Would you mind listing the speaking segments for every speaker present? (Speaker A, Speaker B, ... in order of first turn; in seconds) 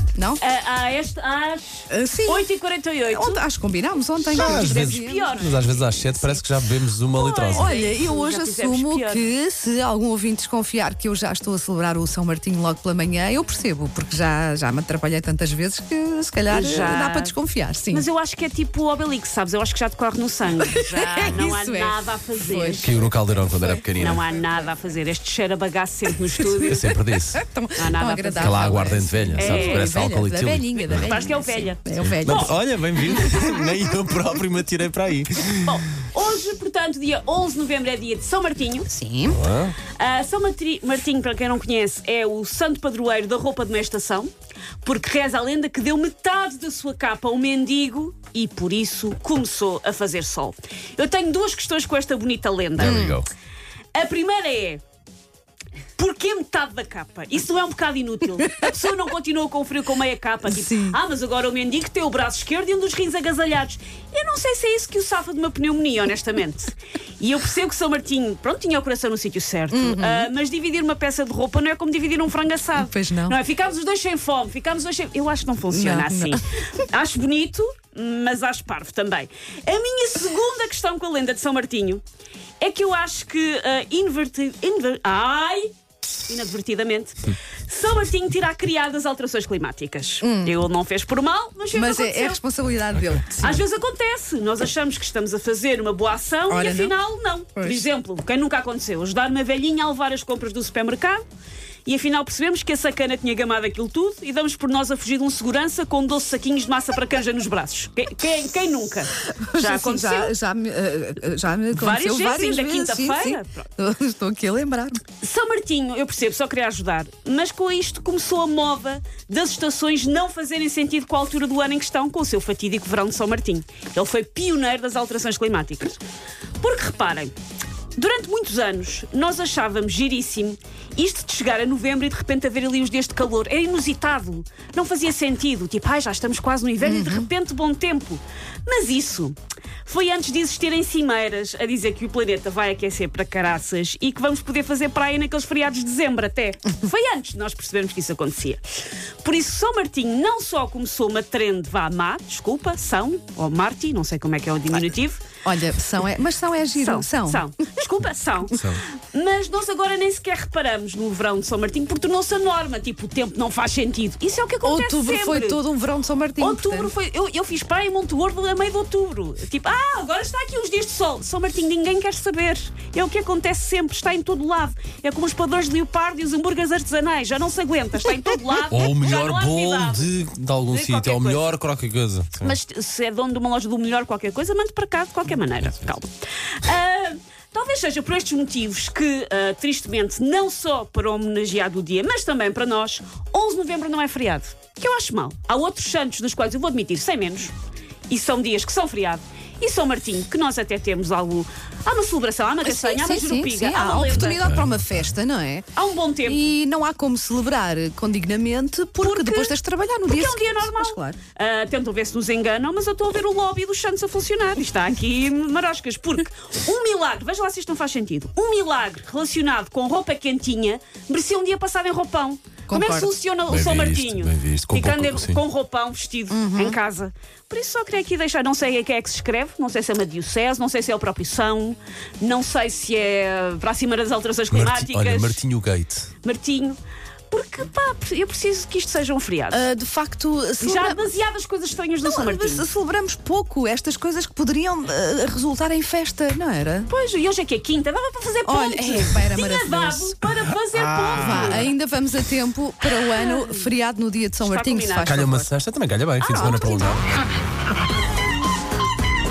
Speaker A: 0.1-0.4, 1.9-2.5, 3.1-5.3, 7.5-18.1, 20.6-23.1, 26.4-32.5, 33.2-33.5, 38.9-39.4, 52.8-53.2, 60.5-61.0, 69.7-70.3, 72.8-73.4, 75.7-76.4, 90.2-90.6, 91.7-93.7, 96.5-97.0, 97.5-97.9, 109.3-115.0, 136.8-137.3, 155.4-157.5, 164.6-166.9, 202.6-205.7, 206.2-211.2, 222.7-223.2, 226.3-226.8, 239.5-241.1, 242.0-246.9, 248.4-250.2, 251.0-255.5, 256.2-257.0
Speaker B: 0.4-3.4, 4.3-6.4, 7.1-9.2, 16.5-17.4, 17.9-22.9, 23.9-26.9, 27.8-29.9, 30.8-32.5, 35.6-38.9, 40.0-44.3, 44.8-53.1, 54.0-54.8, 56.0-82.0, 82.6-85.7, 86.3-92.4, 93.4-101.2, 101.9-110.3, 111.7-113.7, 115.2-126.0, 126.6-127.3, 128.0-148.6, 149.2-155.2, 156.8-165.6, 166.4-180.1, 180.7-181.5, 182.4-197.5, 198.1-204.4, 205.8-206.5, 209.0-209.5, 210.1-235.4, 236.2-236.8, 237.3-239.7, 240.6-242.7, 246.9-251.7, 254.4-255.2, 256.2-257.0
Speaker C: 4.3-7.8, 22.8-24.2, 26.7-27.4, 28.4-31.1, 31.9-35.8, 39.3-39.8, 52.8-53.3, 158.5-158.8, 178.7-182.6, 204.0-205.1, 223.5-225.4, 234.5-236.1, 255.0-257.0